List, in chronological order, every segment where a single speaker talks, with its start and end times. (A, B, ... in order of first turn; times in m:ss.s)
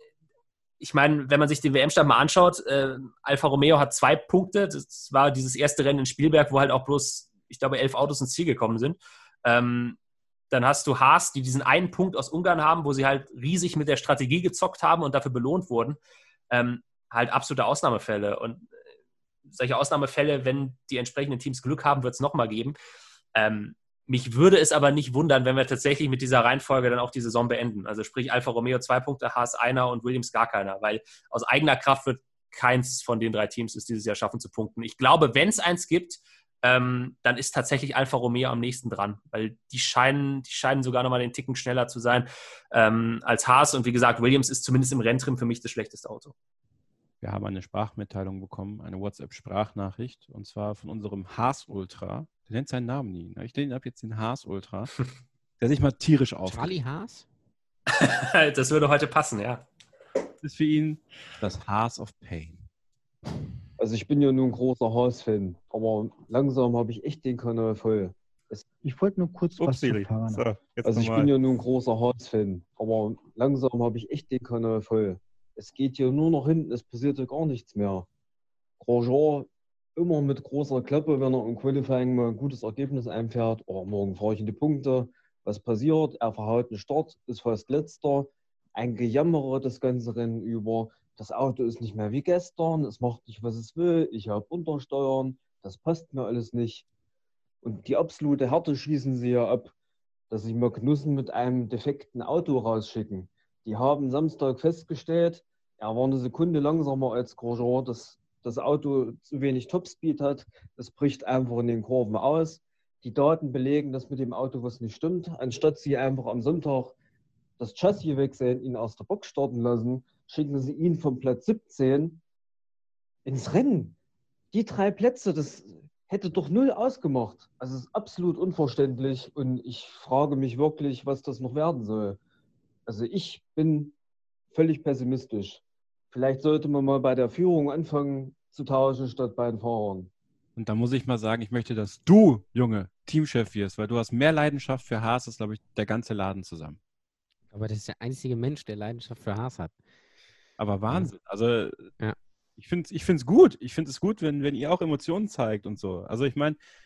0:00.8-0:10.0 A
0:10.5-0:16.0 A
0:16.5-0:18.7 A
0:19.5-0:22.8 A
0:23.3-0:46.3 A
0:47.2-0:54.9 B
0:55.6-0:56.7 B
0:56.4-0:57.2 C
0:57.9-0:59.6 A
1:00.4-1:02.6 B
1:03.8-1:08.7 D
1:08.8-1:11.1 E
1:09.6-1:11.3 B
1:10.8-1:18.1 D
1:18.8-1:36.8 D
1:37.6-1:39.7 D
1:40.3-1:56.9 D
1:57.6-2:02.2 D
2:03.2-2:04.0 D
2:04.5-2:12.2 D
2:12.9-2:13.9 D
2:14.5-2:20.1 D
2:20.6-2:26.8 B
2:27.5-2:29.7 C
2:30.6-2:31.9 B
2:32.6-2:36.6 B